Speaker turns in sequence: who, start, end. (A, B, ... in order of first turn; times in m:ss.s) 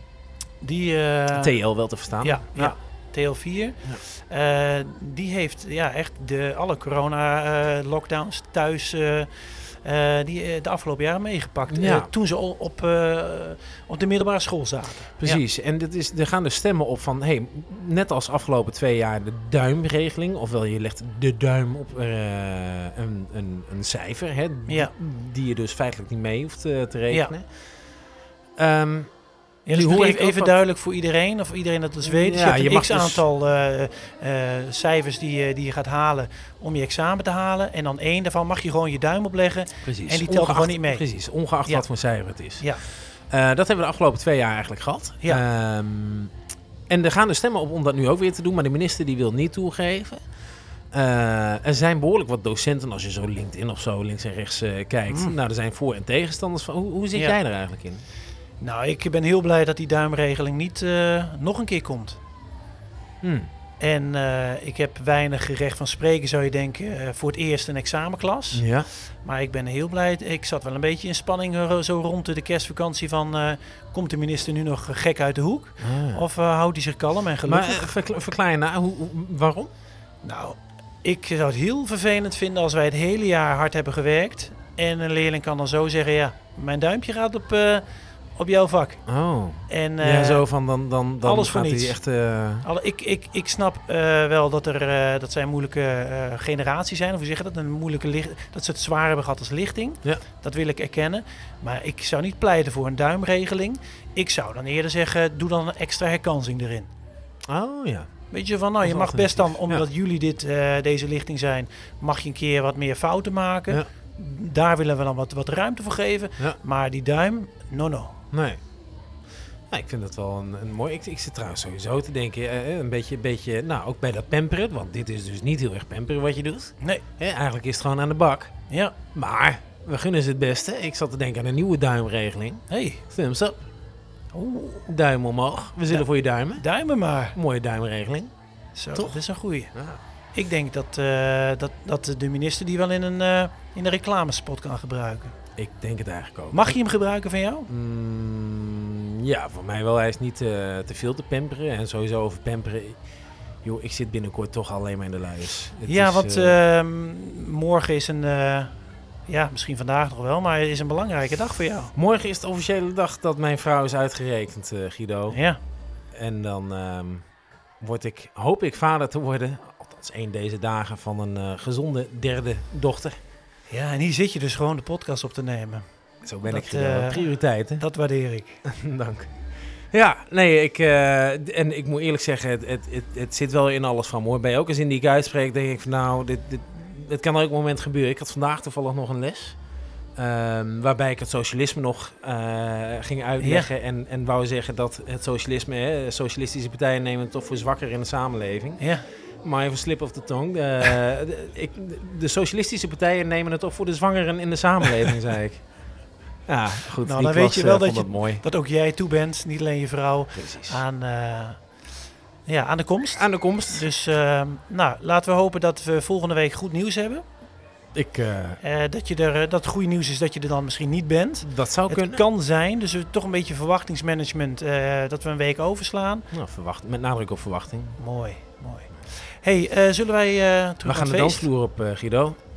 0:00.6-0:01.6 A
0:01.3-0:02.8 B
0:02.2-0:15.4 A
0:11.7-0:12.1 B
0:15.2-0:27.5 B
0:28.6-0:29.1 B
0:29.7-0:41.1 A
0:29.7-0:30.6 B
0:32.0-0:33.2 B
0:39.8-0:42.7 B
0:43.3-0:46.3 B
0:46.9-0:50.2 B
0:50.9-0:58.0 B
0:55.1-0:55.4 A
0:58.6-1:02.2 A
1:03.2-1:03.5 B
1:03.8-1:17.9 A
1:08.5-1:08.9 B
1:15.8-1:16.2 B
1:17.4-1:19.7 B
1:20.2-1:27.8 A
1:28.4-1:29.0 A
1:29.1-1:32.7 B
1:29.7-1:30.5 A
1:31.2-1:32.0 A
1:32.6-1:46.9 A
1:47.5-1:48.1 B
1:48.3-1:58.2 A
1:48.8-1:49.9 B
1:58.3-1:58.6 B
1:59.7-2:08.5 B
2:08.7-2:09.0 A
2:09.1-2:13.6 B
2:12.7-2:13.0 A
2:14.3-2:14.9 A
2:14.9-2:16.6 B
2:15.9-2:17.4 A
2:17.4-2:18.3 B
2:18.8-2:19.7 A
2:19.7-2:20.0 B
2:20.3-2:25.3 A
2:25.6-2:26.8 B
2:26.5-2:27.7 A
2:27.7-2:33.0 B
2:33.6-2:36.6 B
2:35.9-2:38.7 A
2:39.3-2:41.9 A
2:42.0-2:45.4 B
2:45.3-2:45.6 A
2:46.1-2:47.2 B
2:47.8-2:53.2 B
2:53.7-2:55.8 A
2:56.2-2:57.8 B
2:56.4-2:58.6 A
2:58.7-2:59.3 B
2:59.9-3:09.6 B
3:10.2-3:18.9 B
3:13.4-3:13.7 A
3:18.8-3:19.1 A
3:19.4-3:25.6 B
3:26.5-3:28.4 B
3:27.0-3:31.6 A
3:30.4-3:30.8 B
3:32.5-3:37.2 A
3:33.1-3:33.9 B
3:37.9-3:38.6 B
3:38.6-3:46.3 A
3:41.4-3:42.2 B
3:46.3-3:48.0 B
3:48.0-3:51.5 A
3:50.8-3:52.4 B